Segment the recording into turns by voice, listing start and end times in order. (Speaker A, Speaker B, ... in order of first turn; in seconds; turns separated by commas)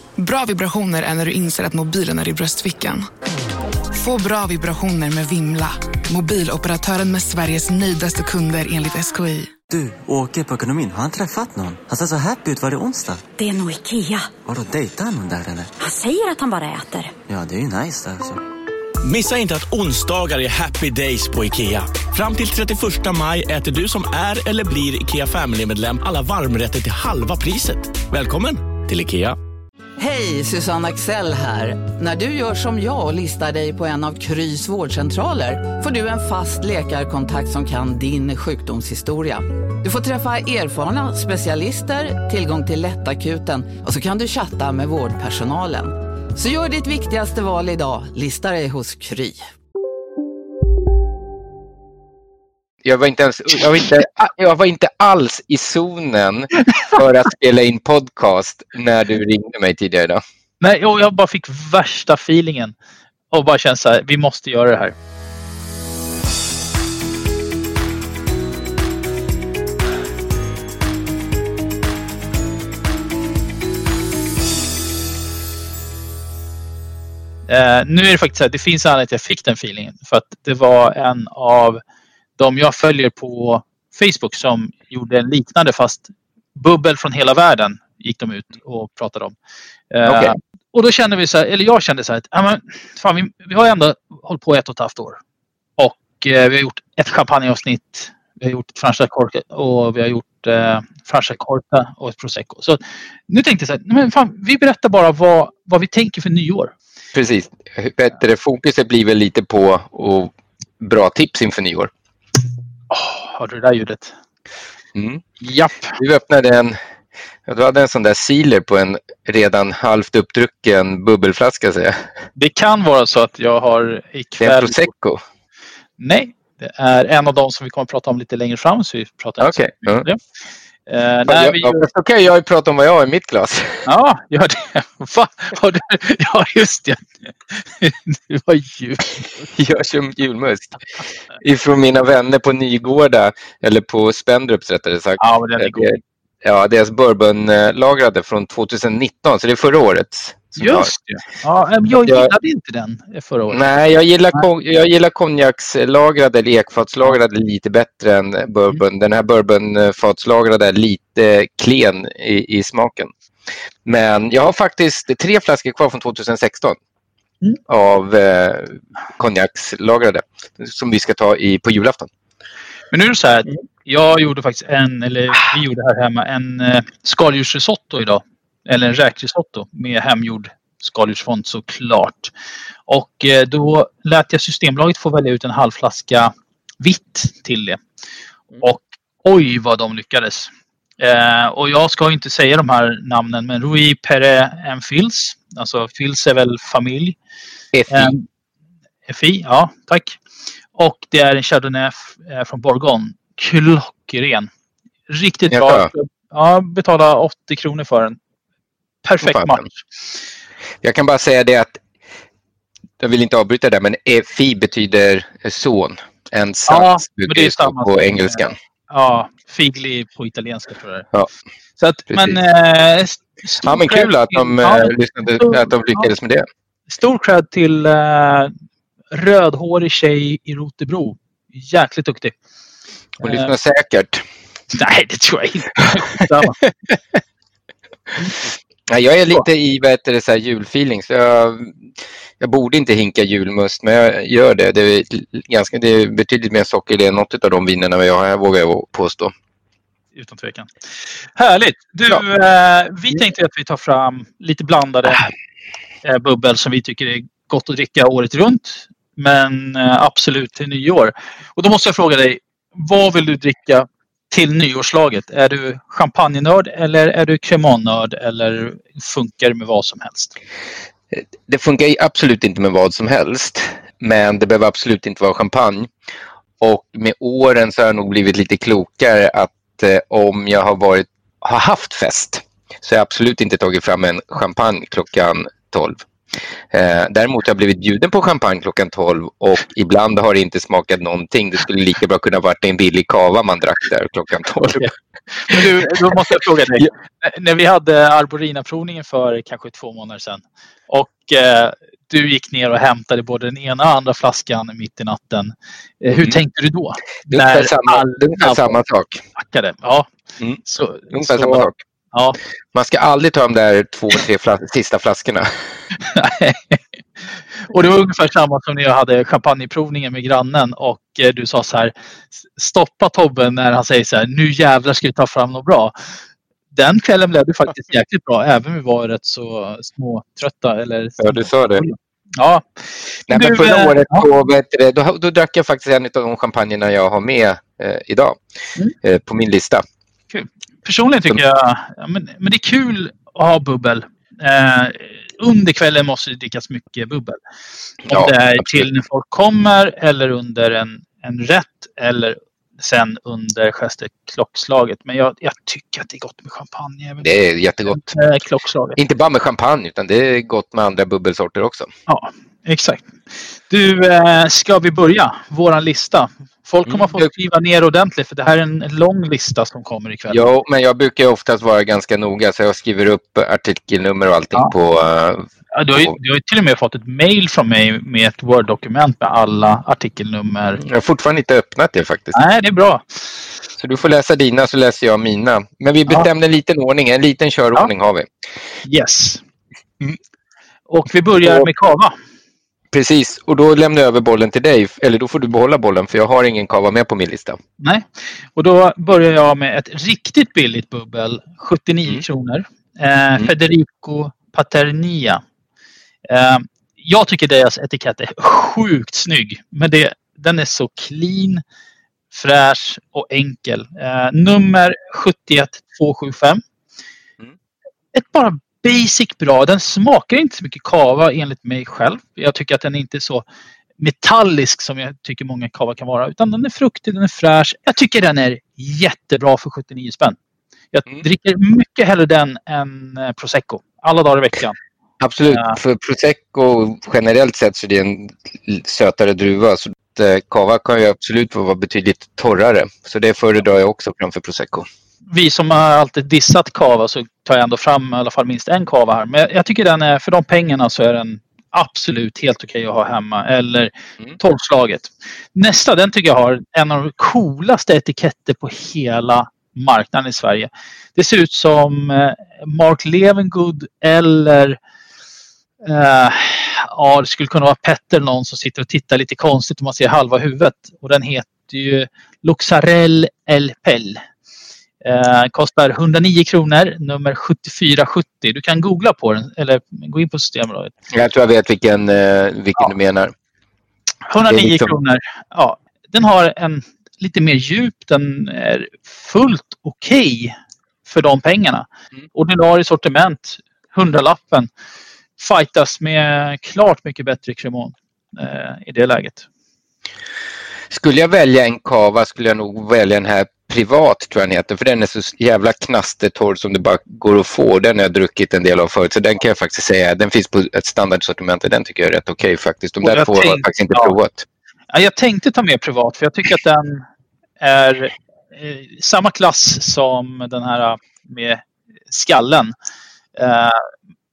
Speaker A: 0.2-3.1, Speaker A: 4.0-9.5, Speaker B: 9.7-13.2, Speaker C: 13.4-14.3, Speaker B: 14.4-15.8, Speaker C: 15.8-17.1, Speaker B: 17.3-18.4, Speaker D: 19.0-29.4, Speaker E: 30.0-49.4, Speaker F: 52.8-60.2, Speaker G: 60.6-62.8, Speaker G: 63.3-65.0, Speaker G: 77.5-81.8, Speaker G: 82.4-89.3, Speaker G: 89.9-95.2, Speaker F: 90.0-90.3, Speaker G: 95.8-106.7, Speaker F: 107.1-111.9, Speaker G: 112.9-114.1, Speaker F: 115.0-115.2, Speaker G: 115.4-116.0, Speaker F: 116.0-116.8, Speaker F: 117.5-122.1, Speaker G: 122.4-124.9, Speaker F: 124.4-125.2, Speaker G: 126.0-130.2, Speaker F: 129.4-130.1, Speaker G: 130.9-131.8, Speaker F: 131.3-133.9, Speaker G: 133.9-139.4, Speaker F: 139.5-140.8, Speaker F: 141.4-150.9, Speaker G: 145.2-146.0, Speaker G: 150.6-153.7, Speaker F: 152.0-152.3, Speaker F: 153.5-163.1, Speaker F: 163.8-166.8, Speaker F: 167.7-172.1, Speaker G: 172.9-182.3, Speaker G: 182.9-187.8, Speaker G: 188.6-197.2, Speaker F: 197.7-198.2, Speaker G: 197.9-198.2, Speaker G: 199.1-200.2, Speaker G: 200.8-204.5, Speaker G: 205.1-208.2, Speaker F: 205.5-205.9, Speaker G: 209.0-209.8, Speaker F: 209.2-209.7, Speaker F: 210.8-211.8, Speaker F: 213.0-218.6, Speaker G: 216.7-221.1, Speaker G: 221.8-226.1, Speaker F: 222.1-222.4, Speaker F: 223.6-226.5, Speaker G: 226.9-228.5, Speaker G: 229.1-232.4, Speaker G: 233.2-233.5, Speaker F: 233.2-234.2, Speaker G: 234.7-236.6, Speaker F: 238.9-241.9, Speaker F: 242.4-249.3, Speaker G: 250.2-250.7, Speaker G: 251.4-255.3, Speaker G: 256.0-270.4, Speaker F: 271.1-275.9, Speaker F: 276.6-286.1, Speaker F: 286.7-294.9, Speaker G: 295.4-308.8, Speaker F: 295.5-296.9, Speaker F: 306.1-306.4, Speaker F: 307.3-309.2, Speaker G: 309.4-310.1, Speaker F: 310.4-311.8, Speaker G: 310.6-312.4, Speaker F: 312.7-315.5, Speaker G: 316.0-316.8, Speaker G: 317.7-321.9, Speaker G: 322.6-325.9, Speaker G: 326.7-334.3, Speaker F: 331.2-331.9, Speaker F: 333.3-338.4, Speaker F: 339.0-339.8, Speaker G: 340.3-347.4, Speaker G: 348.1-357.3, Speaker F: 348.1-348.9, Speaker F: 357.2-358.2, Speaker G: 357.9-359.0, Speaker F: 359.0-361.9, Speaker G: 362.1-363.1, Speaker G: 363.7-370.5, Speaker F: 366.9-367.3, Speaker F: 370.3-376.1, Speaker G: 375.7-380.8, Speaker F: 380.8-382.4, Speaker G: 382.3-383.3, Speaker F: 383.8-388.3, Speaker G: 388.9-389.4, Speaker G: 390.9-392.1, Speaker F: 392.9-397.6, Speaker G: 397.8-405.4, Speaker G: 406.3-411.6, Speaker G: 412.3-416.6, Speaker G: 418.1-423.4, Speaker G: 424.0-430.4, Speaker G: 430.9-434.8, Speaker F: 435.2-444.9, Speaker G: 435.5-435.8, Speaker G: 445.3-464.8, Speaker G: 465.8-474.2, Speaker G: 475.0-480.9, Speaker F: 481.1-483.3, Speaker G: 484.3-494.7, Speaker F: 484.5-484.9, Speaker G: 495.4-499.5, Speaker F: 500.9-514.5, Speaker G: 513.0-514.2, Speaker G: 514.9-517.0, Speaker G: 517.6-522.7, Speaker G: 523.4-523.9